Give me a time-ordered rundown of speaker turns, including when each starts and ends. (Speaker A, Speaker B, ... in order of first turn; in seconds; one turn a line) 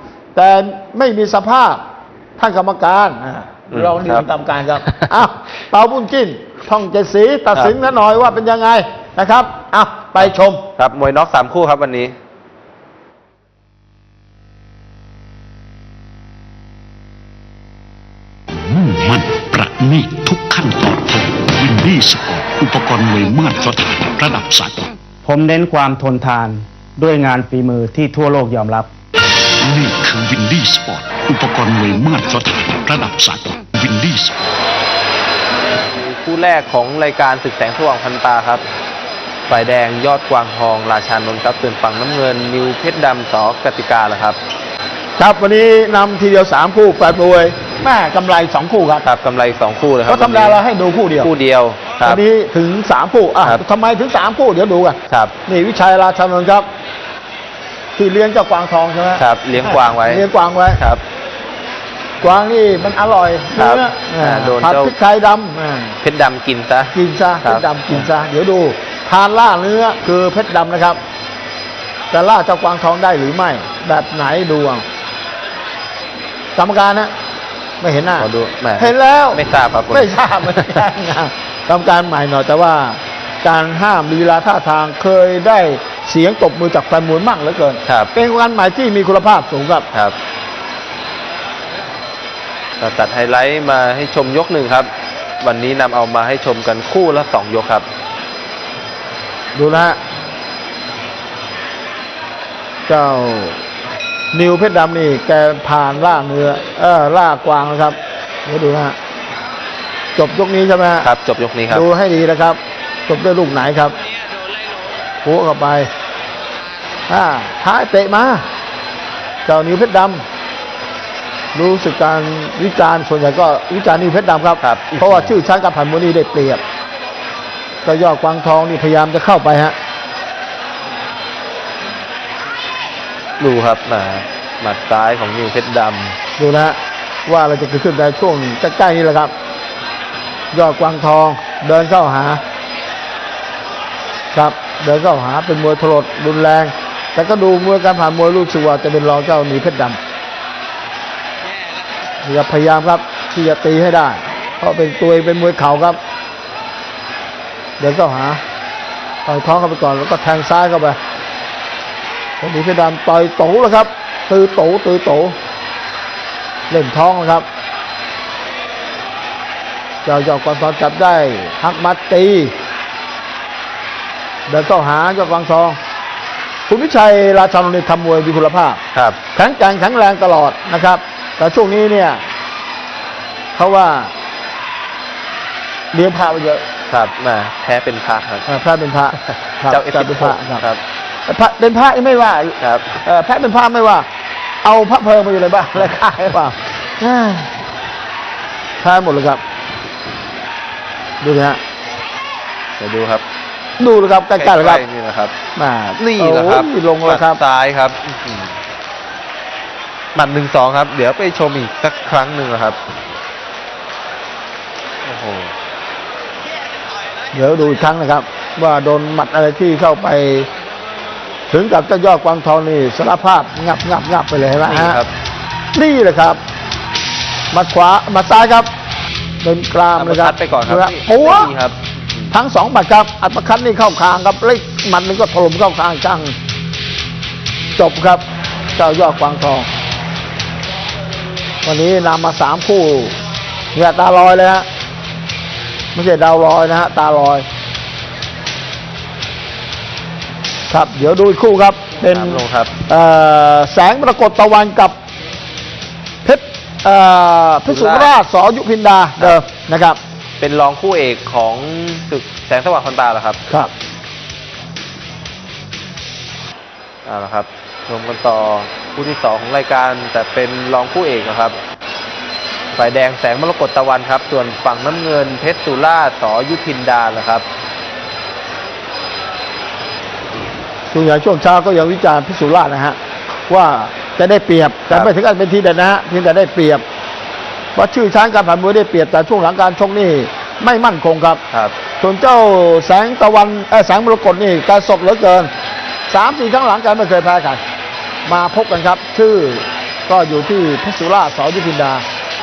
Speaker A: 0.3-1.8
Speaker A: 2.4-10.6
Speaker B: 3.7-4.2
Speaker B: 10.2-12.1
Speaker C: 18.5-24.9
Speaker D: 25.2-28.9
Speaker C: 29.5-34.5
Speaker B: 35.9-38.6
Speaker B: 39.5-44.4
Speaker A: 45.2-49.1
Speaker B: 49.0-50.6
Speaker A: 50.1-51.3
Speaker B: 51.2-52.2
Speaker A: 52.0-56.7
Speaker A: 58.0-60.8
Speaker B: 59.2-60.2
Speaker B: 60.8-61.0
Speaker A: 62.2-66.0
Speaker B: 63.6-64.9
Speaker B: 66.0-68.1
Speaker A: 66.9-71.0
Speaker A: 72.1-74.8
Speaker A: 76.6-77.1
Speaker A: 77.8-89.9
Speaker B: 78.2-80.8
Speaker B: 87.9-88.1
Speaker B: 92.8-94.9
Speaker B: 95.4-97.8
Speaker A: 99.5-100.0
Speaker A: 102.9-103.6
Speaker A: 104.3-109.0
Speaker A: 110.2-111.1
Speaker B: 111.0-111.8
Speaker A: 111.7-113.9
Speaker A: 115.2-115.9
Speaker A: 117.1-118.5
Speaker A: 119.5-120.2
Speaker A: 121.5-126.6
Speaker B: 124.6-125.3
Speaker A: 127.8-129.8
Speaker B: 133.4-136.2
Speaker A: 136.4-139.3
Speaker A: 140.5-142.4
Speaker A: 144.3-150.0
Speaker A: 152.2-156.0
Speaker A: 157.8-158.4
Speaker A: 159.2-161.0
Speaker A: 162.4-165.4
Speaker A: 166.7-167.5
Speaker A: 170.1-172.6
Speaker A: 174.5-175.8
Speaker A: 176.7-178.8
Speaker A: 179.3-182.2
Speaker A: 183.6-184.1
Speaker A: 185.9-186.7
Speaker B: 186.9-188.5
Speaker A: 188.5-190.6
Speaker B: 189.7-190.8
Speaker A: 191.3-194.1
Speaker B: 192.6-192.9
Speaker A: 194.6-197.5
Speaker A: 198.8-199.4
Speaker A: 201.2-201.6
Speaker B: 202.8-203.2
Speaker A: 203.8-204.8
Speaker B: 204.4-205.3
Speaker A: 205.6-207.4
Speaker B: 206.0-208.5
Speaker B: 210.2-212.8
Speaker B: 215.1-215.5
Speaker A: 217.3-220.5
Speaker A: 221.5-225.0
Speaker B: 224.6-225.1
Speaker A: 225.7-226.4
Speaker A: 227.5-228.7
Speaker A: 229.4-231.5
Speaker B: 230.0-232.3
Speaker A: 232.3-236.3
Speaker A: 237.8-238.2
Speaker A: 238.8-239.7
Speaker A: 241.6-243.2
Speaker A: 243.7-244.7
Speaker A: 245.9-247.5
Speaker A: 250.7-255.0
Speaker B: 252.1-252.7
Speaker A: 256.2-260.0
Speaker B: 257.7-258.1
Speaker B: 260.4-263.4
Speaker B: 267.1-271.6
Speaker B: 272.8-277.4
Speaker A: 280.9-286.8
Speaker A: 287.8-291.4
Speaker A: 292.0-295.5
Speaker A: 296.1-297.6
Speaker A: 298.3-302.0